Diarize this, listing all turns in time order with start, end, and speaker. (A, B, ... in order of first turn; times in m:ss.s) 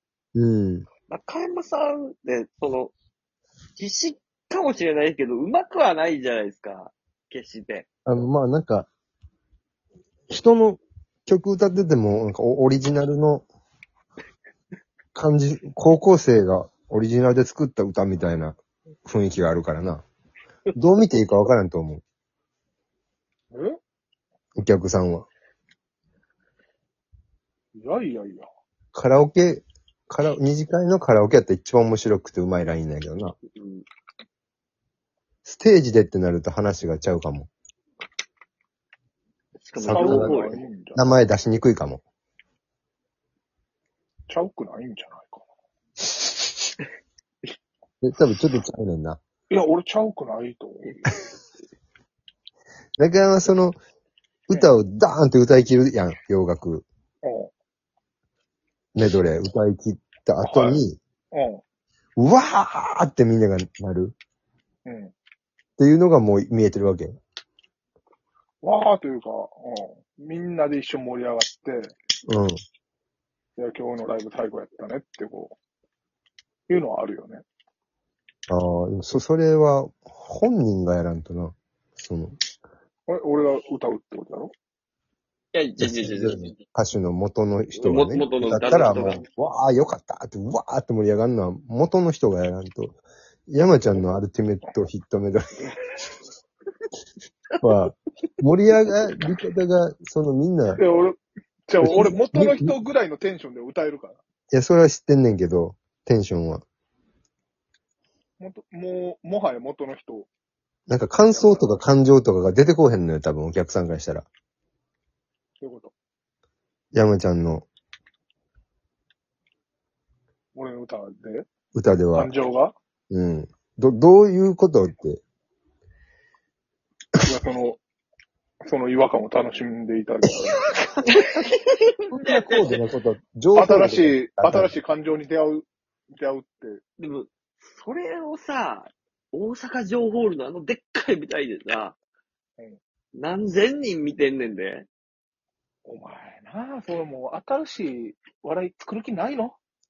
0:00.3-0:00.9 A
0:01.1-0:02.9 B
0:03.8-0:07.9 B
0:08.0-0:08.9 A
0:10.3-0:13.5 A
0:15.1-0:20.0 A
0:20.7-0:22.0 A
0:23.5-0:23.8 C
0:24.6-0:25.2 A
0:27.7-0:28.5 C
0:28.9-0:33.4 A
0:33.5-0:33.8 B
0:35.4-0:37.5 A
0:39.6-0:40.6 B
0:39.8-0:42.0 A
0:39.9-0:41.0 C
0:44.3-0:45.4 C
0:48.0-0:49.2 A
0:49.5-0:51.1 C
0:53.0-0:53.8 A
0:54.5-0:56.8 A
0:57.2-0:57.5 C
0:58.9-1:01.0 A
1:00.4-1:00.8 C
1:01.3-1:01.6 C
1:02.2-1:04.1 A
1:04.8-1:05.1 C
1:05.8-1:07.2 A
1:08.6-1:11.9 C
1:12.3-1:12.6 A
1:13.6-1:15.6 C
1:16.7-1:17.4 C
1:18.5-1:22.4 A
1:23.1-1:24.5 C
1:25.5-1:26.5 B
1:25.8-1:35.4 A
1:27.8-1:29.2 B
1:37.6-1:40.8 A
1:40.8-1:44.2 C
1:41.8-1:42.7 A
1:44.5-1:46.6 A
1:48.4-1:50.3 C
1:50.9-1:54.3 A
1:51.3-1:51.7 C
1:55.6-1:55.9 C
1:56.9-1:57.7 A
2:00.5-2:01.5 C
2:01.7-2:02.3 A
2:02.1-2:02.7 C
2:03.1-2:05.2 A
2:07.2-2:07.8 C
2:08.6-2:10.7 C
2:11.1-2:12.8 B
2:12.1-2:14.7 A
2:13.5-2:16.8 C
2:17.0-2:22.0 B
2:23.1-2:24.9 B
2:25.8-2:29.6 C